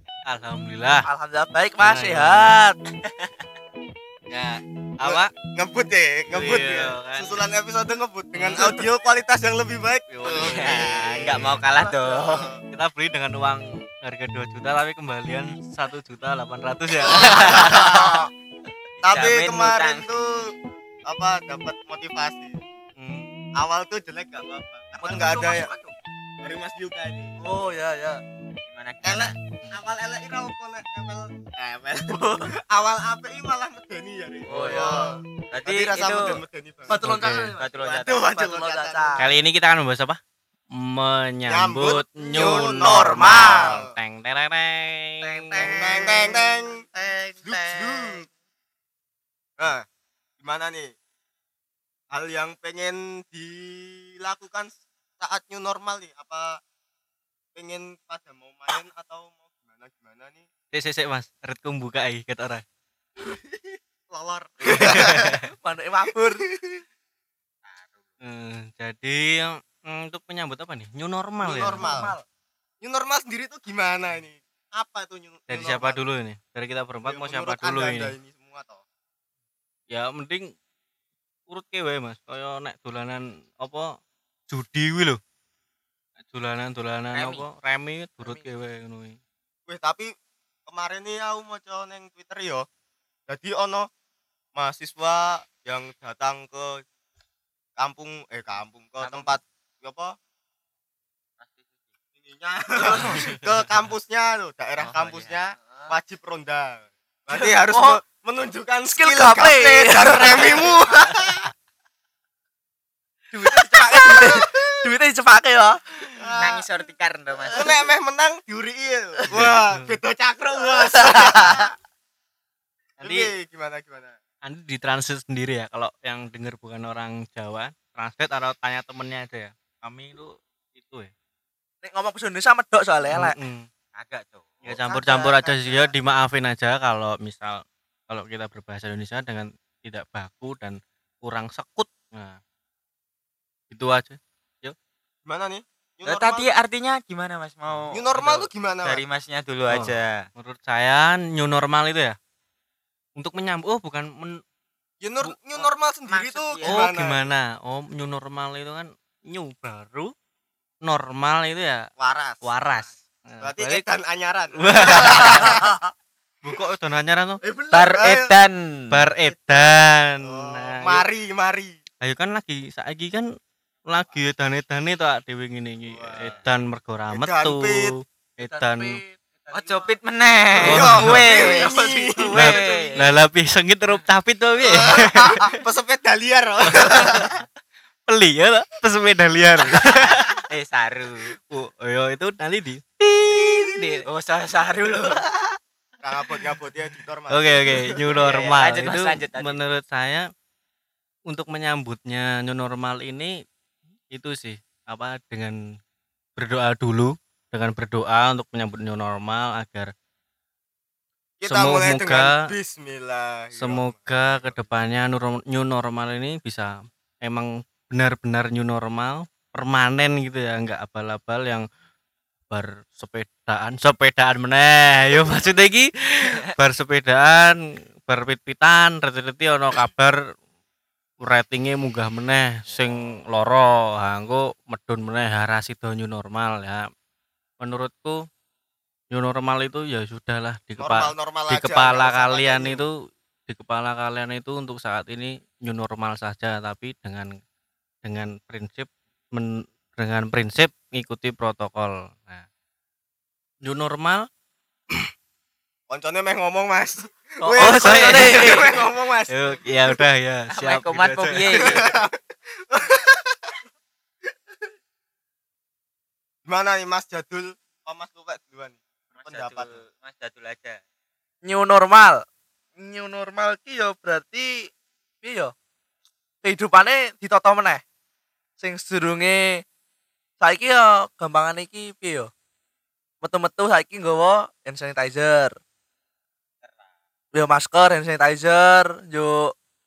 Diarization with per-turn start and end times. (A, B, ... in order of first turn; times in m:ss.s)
0:00.3-0:01.1 A
0:01.1-0:02.8 B
0:01.8-0:02.6 A
0:03.0-0:03.3 C
0:04.3-0:05.3 A
0:05.0-0:12.6 D
0:06.3-0:07.4 A
0:08.3-0:08.8 A
0:10.1-0:10.8 A
0:10.3-0:12.5 C
0:12.7-0:17.6 A
0:17.1-0:18.0 C
0:17.2-0:18.2 B
0:17.6-0:18.2 D
0:19.0-0:20.2 C
0:19.0-0:20.5 D
0:21.1-0:22.6 D
0:23.0-0:23.3 A
0:23.6-0:25.7 D
0:25.0-0:25.9 B
0:26.4-0:27.3 D
0:27.4-0:28.2 B
0:28.6-0:29.3 C
0:29.0-0:37.1 D
0:32.1-0:32.5 B
0:34.5-0:35.2 B
0:35.5-0:36.4 C
0:36.9-0:37.6 B
0:37.0-0:37.6 A
0:37.6-0:38.3 C
0:37.8-0:39.3 D
0:38.3-0:39.3 B
0:39.2-0:40.2 A
0:40.7-0:45.7 A
0:41.5-0:43.9 D
0:42.3-0:43.8 B
0:45.2-0:48.3 B
0:45.6-0:46.8 D
0:47.4-0:48.2 D
0:50.4-0:50.9 D
0:52.1-0:56.6 D
0:57.6-1:00.5 D
1:00.7-1:02.6 A
1:03.5-1:05.3 D
1:04.8-1:05.4 A
1:04.8-1:06.4 B
1:07.7-1:08.0 C
1:08.2-1:12.1 A
1:11.4-1:12.1 D
1:11.8-1:12.2 B
1:12.8-1:16.0 D
1:15.5-1:18.1 A
1:17.0-1:18.8 D
1:19.9-1:20.5 A
1:21.5-1:23.9 A
1:24.5-1:25.2 A
1:26.2-1:29.2 A
1:27.1-1:27.4 C
1:28.2-1:28.5 B
1:29.7-1:30.1 D
1:30.7-1:32.6 D
1:33.3-1:33.9 D
1:34.6-1:36.8 D
1:37.8-1:40.1 D
1:39.0-1:39.4 C
1:41.4-1:41.7 C
1:42.2-1:51.5 D
1:44.8-1:45.9 C
1:47.3-1:48.0 B
1:48.9-1:50.6 B
1:53.3-1:56.2 B
1:54.2-1:54.6 D
1:56.2-1:56.6 D
1:56.4-1:57.8 C
1:57.5-2:01.7 D
1:59.4-2:00.0 A
2:00.9-2:01.7 B
2:03.0-2:04.1 D
2:03.0-2:03.3 A
2:04.4-2:11.1 A
2:11.8-2:13.4 B
2:13.1-2:13.7 A
2:13.9-2:14.7 C
2:14.7-2:22.4 A
2:14.7-2:15.9 D
2:14.9-2:15.2 B
2:23.7-2:24.8 A
2:25.2-2:26.5 D
2:26.0-2:28.0 C
2:27.9-2:29.0 D
2:28.2-2:28.5 A
2:28.8-2:30.2 C
2:29.7-2:32.2 A
2:33.2-2:34.4 A
2:35.0-2:37.2 D
2:36.1-2:36.9 C
2:36.6-2:40.1 A
2:40.8-2:41.9 A
2:42.0-2:42.4 D
2:42.4-2:43.8 A
2:43.4-2:45.5 D
2:44.6-2:45.6 A
2:45.0-2:45.7 B
2:46.4-2:47.4 A
2:47.4-2:47.9 B
2:47.7-2:48.9 C
2:47.9-2:48.3 D
2:48.9-2:51.0 A
2:49.2-2:51.8 D
2:52.0-2:53.3 A
2:53.8-2:59.0 A
2:55.9-2:56.4 D
2:57.1-2:57.9 D
2:58.4-2:59.9 B
2:59.5-3:03.2 C
3:00.6-3:02.4 D
3:00.6-3:01.2 A
3:00.7-3:03.0 B
3:02.3-3:05.5 A
3:04.6-3:07.4 D
3:08.1-3:10.4 A
3:10.5-3:11.3 C
3:11.5-3:12.8 A
3:13.0-3:15.5 C
3:16.0-3:18.0 D
3:17.3-3:20.3 A
3:18.1-3:19.6 C
3:21.3-3:23.3 A
3:24.1-3:25.6 A
3:26.4-3:29.9 A
3:31.4-3:34.6 D
3:31.4-3:32.3 A
3:33.5-3:41.6 A
3:42.5-3:50.2 A
3:46.2-3:46.5 C
3:51.2-3:56.8 A
3:57.6-3:58.2 A
3:59.1-4:02.9 A
4:00.8-4:02.8 D
4:03.5-4:07.3 A
4:08.0-4:12.4 A
4:13.6-4:14.3 A
4:15.9-4:20.0 D
4:17.4-4:18.7 B
4:17.6-4:18.6 A
4:19.3-4:21.7 A
4:20.5-4:21.8 C
4:21.5-4:22.1 D
4:22.7-4:23.6 D
4:26.5-4:29.8 D
4:29.1-4:30.8 C
4:31.4-4:32.2 B
4:32.8-4:34.7 B
4:35.2-4:35.5 B
4:36.4-4:37.8 B
4:38.6-4:39.6 B
4:40.4-4:42.3 B
4:43.2-4:45.5 B
4:46.6-4:46.9 C
4:47.3-4:49.5 B